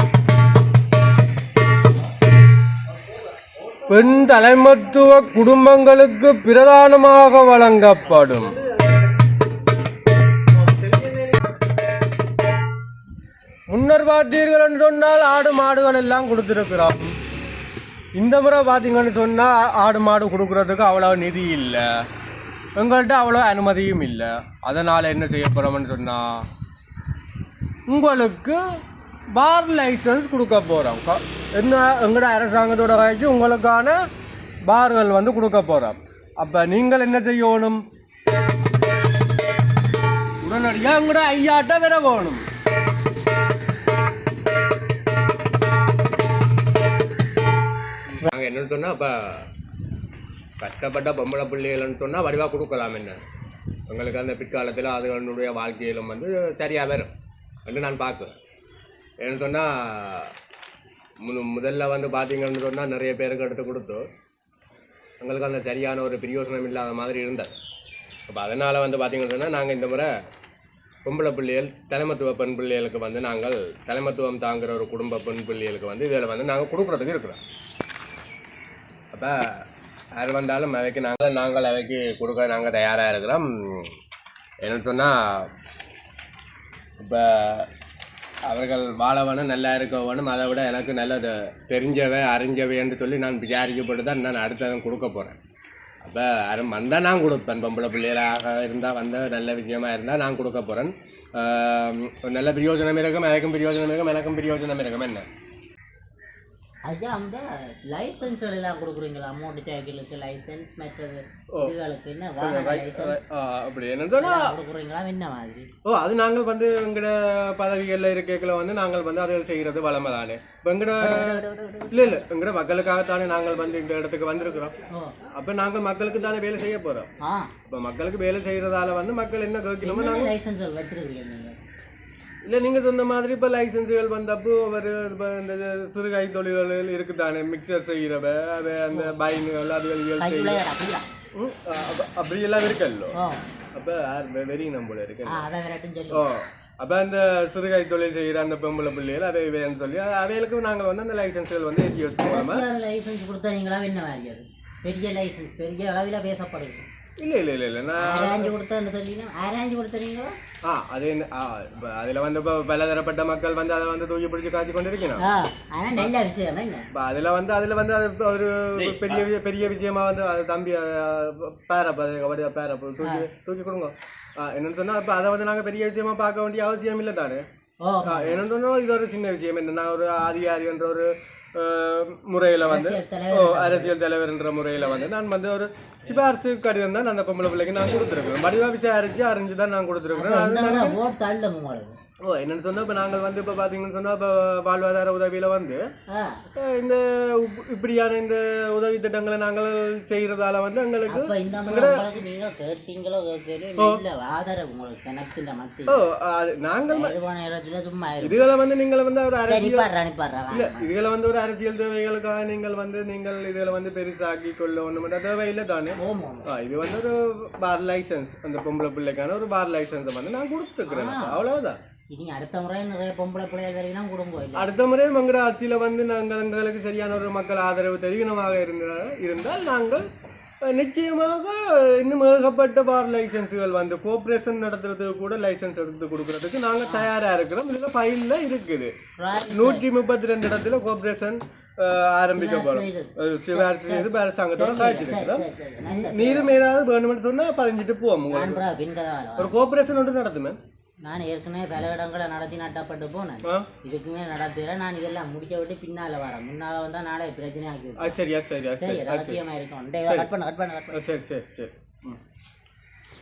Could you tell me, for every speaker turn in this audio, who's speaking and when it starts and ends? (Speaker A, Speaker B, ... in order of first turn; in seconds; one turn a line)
Speaker A: 3.9-8.7
Speaker A: 13.7-17.1
Speaker A: 18.1-22.1
Speaker A: 22.8-26.5
Speaker A: 27.9-28.6
Speaker A: 29.3-34.0
Speaker A: 34.6-37.8
Speaker A: 40.4-42.5
Speaker A: 48.1-49.5
Speaker A: 50.6-53.2
Speaker A: 53.9-57.1
Speaker A: 57.6-58.3
Speaker A: 59.2-60.3
Speaker A: 61.2-64.1
Speaker A: 65.2-67.5
Speaker A: 68.3-70.2
Speaker A: 71.0-77.4
Speaker A: 79.1-84.0
Speaker A: 84.6-85.5
Speaker A: 87.0-87.7
Speaker A: 88.5-95.4
Speaker A: 96.0-105.3
Speaker B: 106.8-113.2
Speaker A: 112.4-114.5
Speaker B: 114.2-115.7
Speaker A: 115.8-124.7
Speaker B: 121.0-122.2
Speaker B: 124.9-125.2
Speaker A: 125.3-127.1
Speaker B: 127.2-127.5
Speaker A: 127.7-130.3
Speaker B: 129.8-131.5
Speaker A: 132.4-140.6
Speaker B: 140.2-141.1
Speaker A: 141.3-143.2
Speaker B: 143.2-143.4
Speaker A: 143.7-145.5
Speaker B: 145.2-146.3
Speaker A: 146.1-152.6
Speaker B: 152.2-156.8
Speaker A: 157.2-158.5
Speaker B: 158.0-160.3
Speaker A: 160.6-165.2
Speaker B: 165.2-166.9
Speaker A: 166.9-177.4
Speaker B: 177.8-178.4
Speaker A: 178.0-191.0
Speaker B: 182.7-183.9
Speaker B: 190.1-191.9
Speaker A: 192.2-195.8
Speaker B: 196.1-196.4
Speaker A: 196.6-202.1
Speaker B: 201.1-206.0
Speaker A: 203.8-204.0
Speaker A: 205.9-207.1
Speaker B: 206.9-208.4
Speaker A: 208.2-209.9
Speaker B: 209.5-210.9
Speaker A: 210.5-221.8
Speaker B: 216.0-216.5
Speaker B: 220.9-221.4
Speaker B: 222.1-224.7
Speaker A: 224.5-230.1
Speaker A: 230.6-238.9
Speaker B: 239.2-239.8
Speaker A: 239.5-248.6
Speaker B: 242.3-246.5
Speaker B: 248.3-249.5
Speaker A: 249.4-250.6
Speaker B: 251.0-258.2
Speaker A: 258.0-259.4
Speaker B: 258.8-261.0
Speaker A: 260.9-262.2